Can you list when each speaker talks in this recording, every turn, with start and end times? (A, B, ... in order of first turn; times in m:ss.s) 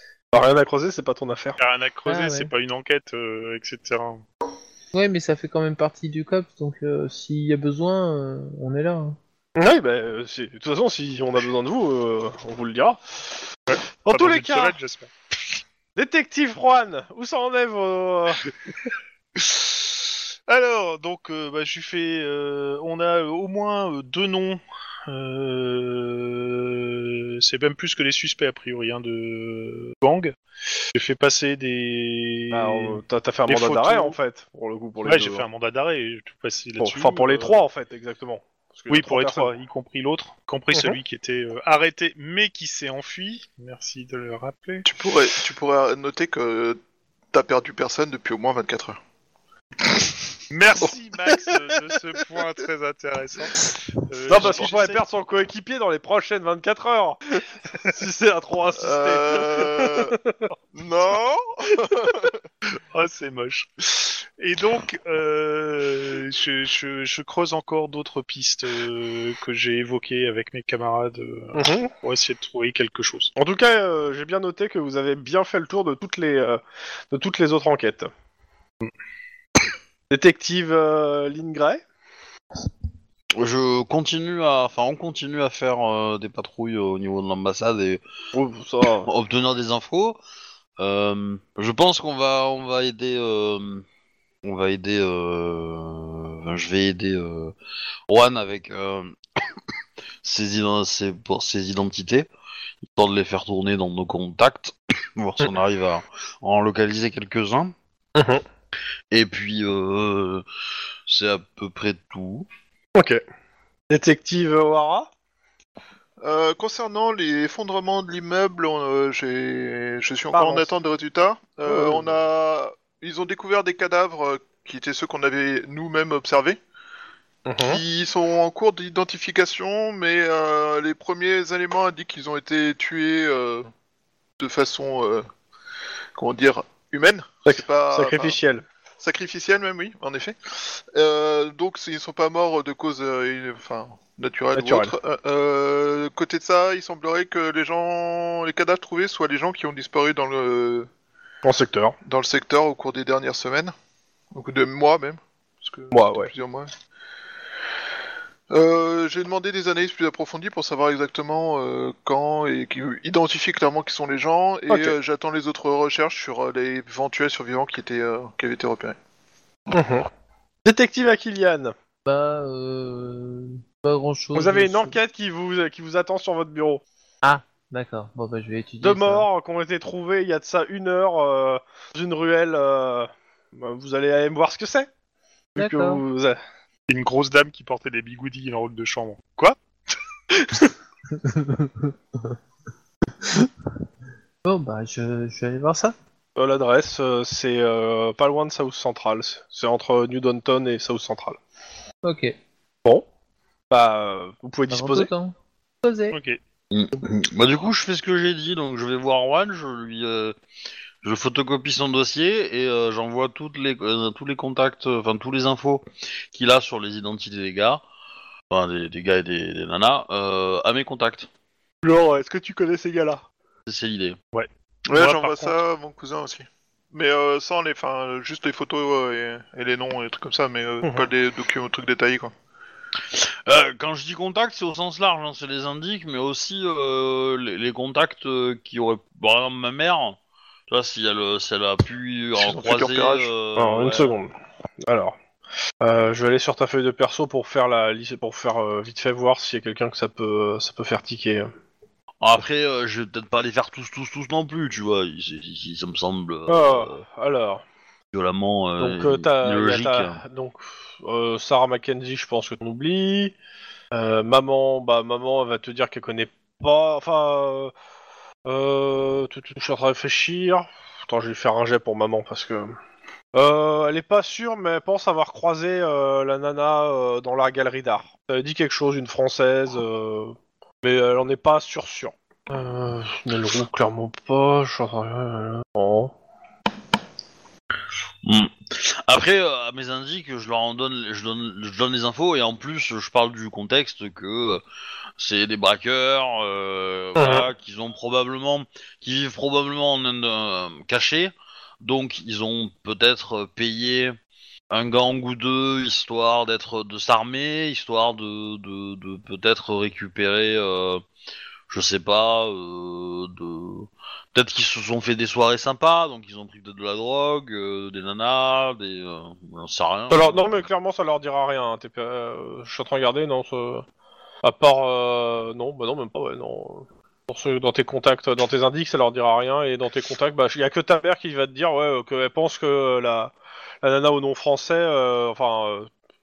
0:00.3-0:01.6 A
0:01.6-0:04.2 B
0:02.1-0:02.5 C
0:04.9-0:09.2 C
0:09.6-0:13.0 A
0:13.7-0:15.1 B
0:14.0-0:14.8 A
0:16.0-0:18.4 A
0:20.5-0:30.4 B
0:30.9-0:34.2 B
0:32.5-0:35.4 A
0:35.0-0:37.6 B
0:36.8-0:39.5 A
0:38.9-0:44.9 B
0:40.7-0:41.0 A
0:44.9-0:46.8 D
0:47.3-0:49.0 D
0:50.5-0:55.0 B
0:54.3-1:00.4 A
0:54.3-0:54.8 D
0:58.8-1:00.2 D
1:00.7-1:02.4 D
1:02.9-1:13.3 B
1:11.6-1:11.9 A
1:13.4-1:18.1 A
1:20.1-1:21.8 A
1:23.4-1:28.0 E
1:28.3-1:29.1 A
1:29.0-1:30.2 E
1:30.8-1:33.8 E
1:34.4-1:37.5 E
1:38.1-1:39.2 E
1:40.2-1:42.3 E
1:42.9-1:47.7 E
1:48.2-1:48.4 A
1:49.1-1:50.4 E
1:51.1-1:52.5 E
1:53.0-1:53.2 A
1:53.9-1:55.1 A
1:56.2-2:06.6 D
2:00.3-2:00.7 A
2:01.7-2:02.2 A
2:07.5-2:07.8 A
2:07.6-2:13.7 D
2:14.4-2:15.3 D
2:16.2-2:18.4 D
2:17.5-2:18.6 A
2:19.0-2:30.9 D
2:24.6-2:24.9 A
2:31.4-2:32.0 A
2:32.0-2:33.7 D
2:34.3-2:36.7 D
2:35.9-2:36.3 A
2:38.5-2:49.0 D
2:44.7-2:45.0 A
2:49.7-2:50.1 A
2:50.6-2:51.7 A
2:52.0-2:55.0 C
2:54.3-2:56.8 A
2:57.2-2:59.3 C
2:58.8-3:04.9 A
3:05.6-3:06.4 A
3:05.6-3:06.0 C
3:06.9-3:09.6 B
3:11.1-3:12.4 C
3:13.2-3:13.5 C
3:14.4-3:16.0 C
3:16.4-3:21.4 A
3:22.0-3:22.4 C
3:23.7-3:25.1 A
3:24.7-3:26.2 C
3:26.1-3:26.4 B
3:26.7-3:30.4 E
3:31.0-3:37.8 E
3:38.5-3:41.3 E
3:41.8-3:43.2 A
3:43.7-3:44.2 E
3:44.3-3:45.6 B
3:44.9-3:52.3 D
3:50.8-3:51.1 A
3:53.1-4:00.2 E
4:00.7-4:04.1 E
4:02.4-4:03.3 D
4:03.6-4:04.3 A
4:04.9-4:05.2 A
4:05.8-4:11.5 A
4:12.2-4:17.0 E
4:16.5-4:17.6 A
4:18.1-4:20.2 E
4:18.8-4:23.4 A
4:23.9-4:27.7 A
4:28.5-4:32.8 A
4:33.3-4:46.1 A
4:48.2-4:54.6 E
4:55.2-5:04.2 E
4:57.2-4:57.5 A
5:04.7-5:11.0 E
5:11.7-5:20.5 E
5:20.1-5:23.8 A
5:24.4-5:35.9 A